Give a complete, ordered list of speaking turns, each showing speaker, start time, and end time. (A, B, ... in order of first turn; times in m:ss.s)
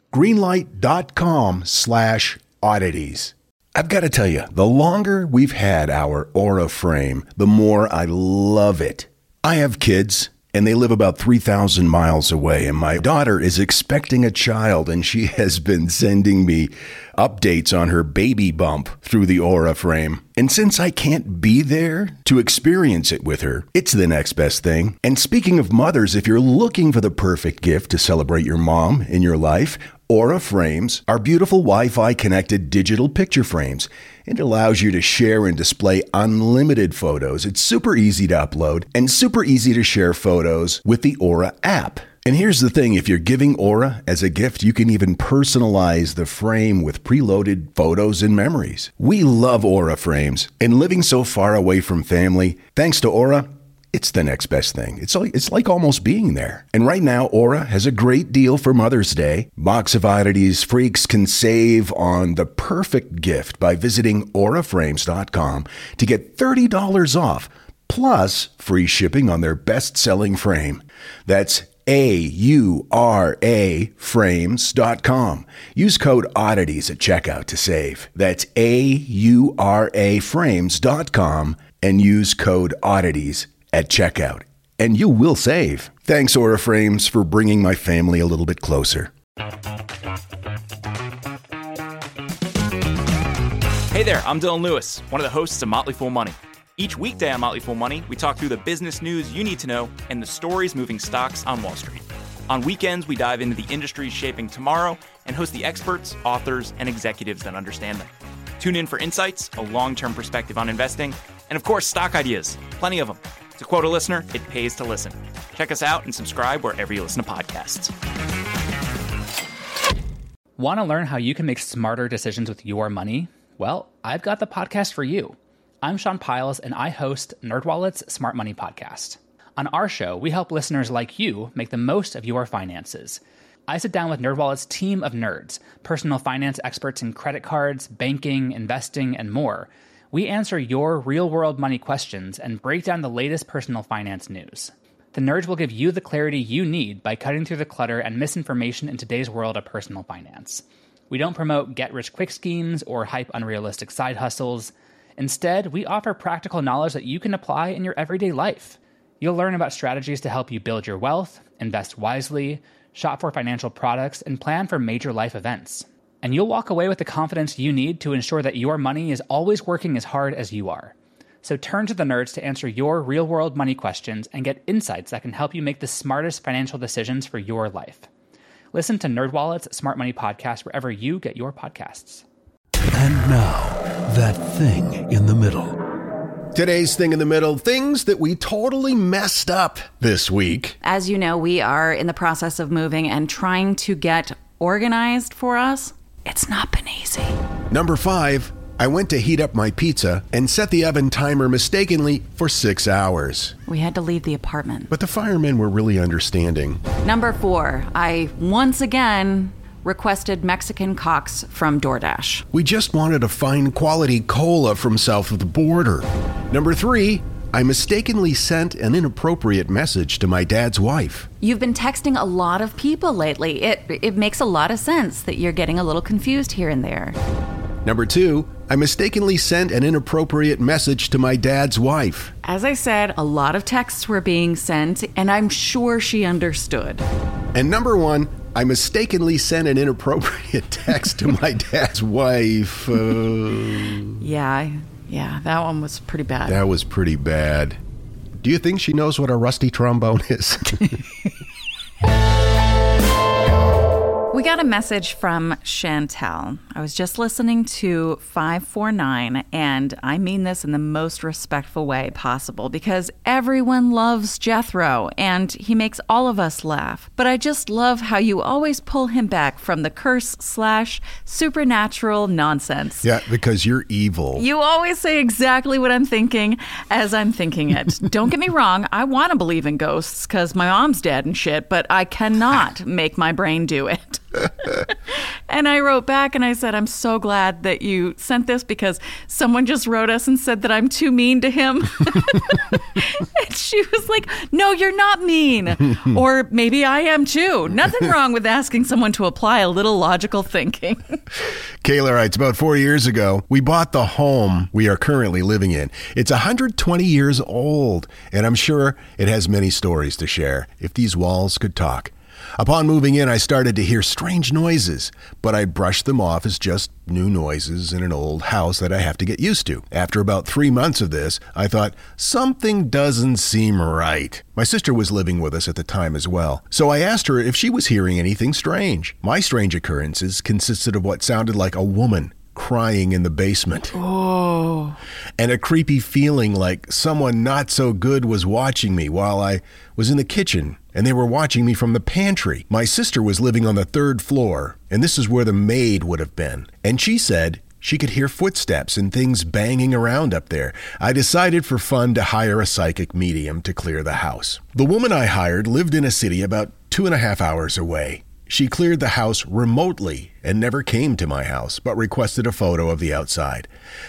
0:00.1-1:29.1 A
1:33.9-1:57.9 B
2:00.6-2:58.1 C
2:58.7-3:02.2 C
3:02.9-3:05.8 D
3:06.5-3:10.8 A
3:10.8-3:17.4 E
3:17.7-3:23.6 A
3:23.7-3:24.9 E
3:24.9-3:26.8 A
3:27.0-3:32.4 E
3:32.5-3:41.3 A
3:41.4-3:47.2 E
3:47.8-3:52.3 A
3:52.4-3:57.0 E
3:57.5-4:04.2 A
4:04.2-4:06.6 E
4:06.4-4:07.8 A
4:08.4-4:11.1 A
4:14.3-4:33.0 E
4:33.0-4:34.4 A
4:34.4-4:44.9 E
4:45.5-5:01.2 E
5:01.8-5:34.0 A
5:34.0-5:34.9 E
5:35.4-6:03.7 A